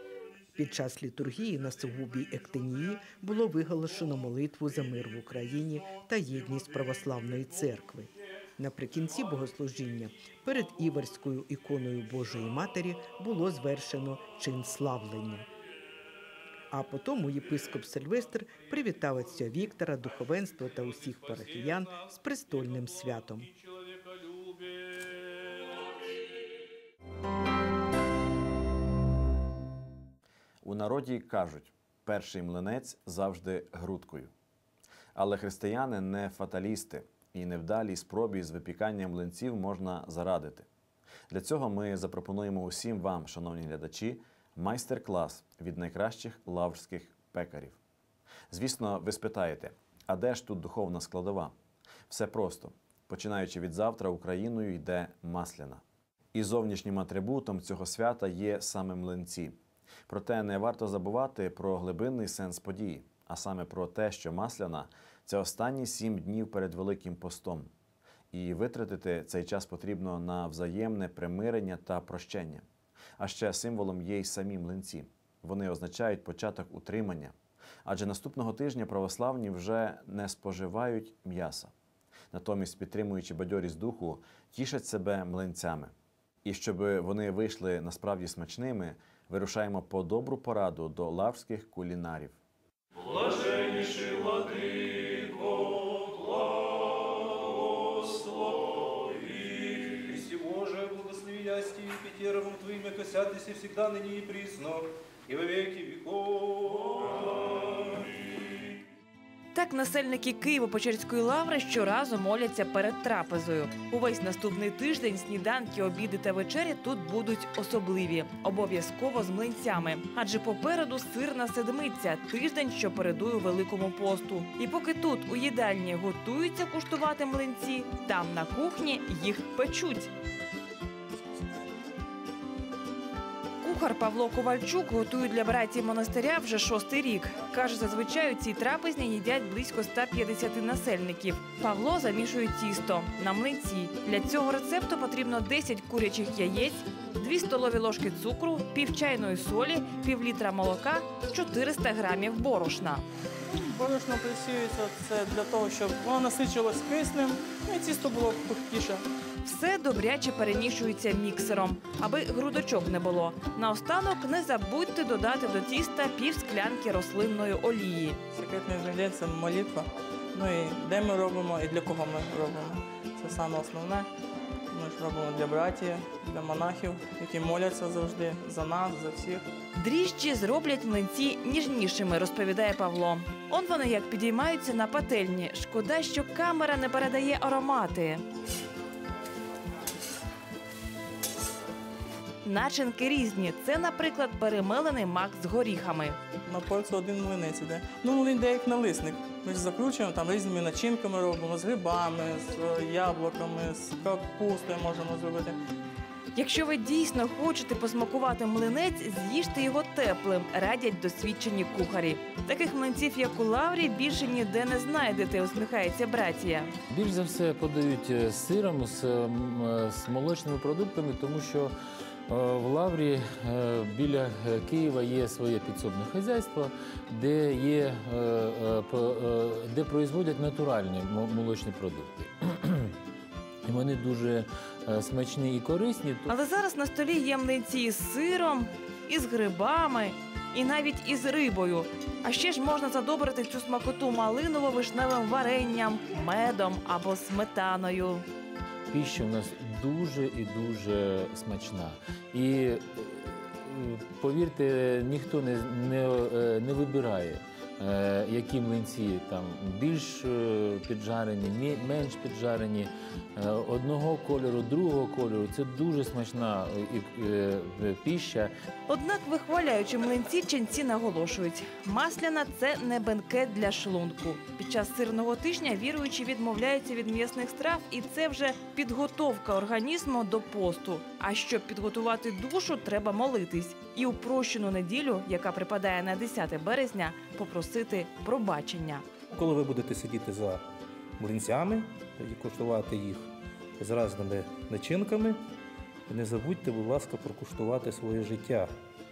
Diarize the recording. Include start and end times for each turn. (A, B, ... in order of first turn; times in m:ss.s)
0:00.5-0:15.5 A
0:16.7-0:23.5 A
0:30.6-0:34.3 B
0:35.1-0:40.7 B
0:41.3-0:47.8 B
0:48.5-0:51.5 B
0:52.1-0:55.8 B
0:56.3-0:59.6 B
1:00.1-1:07.7 B
1:08.3-1:12.6 B
1:13.2-1:17.3 B
1:17.8-1:21.7 B
1:22.3-1:25.9 B
1:26.4-1:32.4 B
1:33.2-1:36.4 C
1:37.9-1:38.5 C
1:39.1-1:47.7 C
1:49.5-2:10.1 D
2:13.6-2:33.0 D
2:33.5-2:39.0 E
2:39.4-2:48.2 D
2:48.3-2:54.1 E
2:54.7-2:59.4 E
2:59.7-3:08.2 D
3:12.4-3:16.2 D
3:16.4-3:25.6 E
3:26.3-3:36.8 D
3:36.9-3:41.7 F
3:42.3-3:52.9 F
3:53.6-3:56.3 F
3:56.3-4:08.2 D
4:08.9-4:28.5 F
4:28.9-4:49.0 D
4:49.3-4:50.6 C
4:51.2-4:55.4 C
4:56.1-4:58.7 C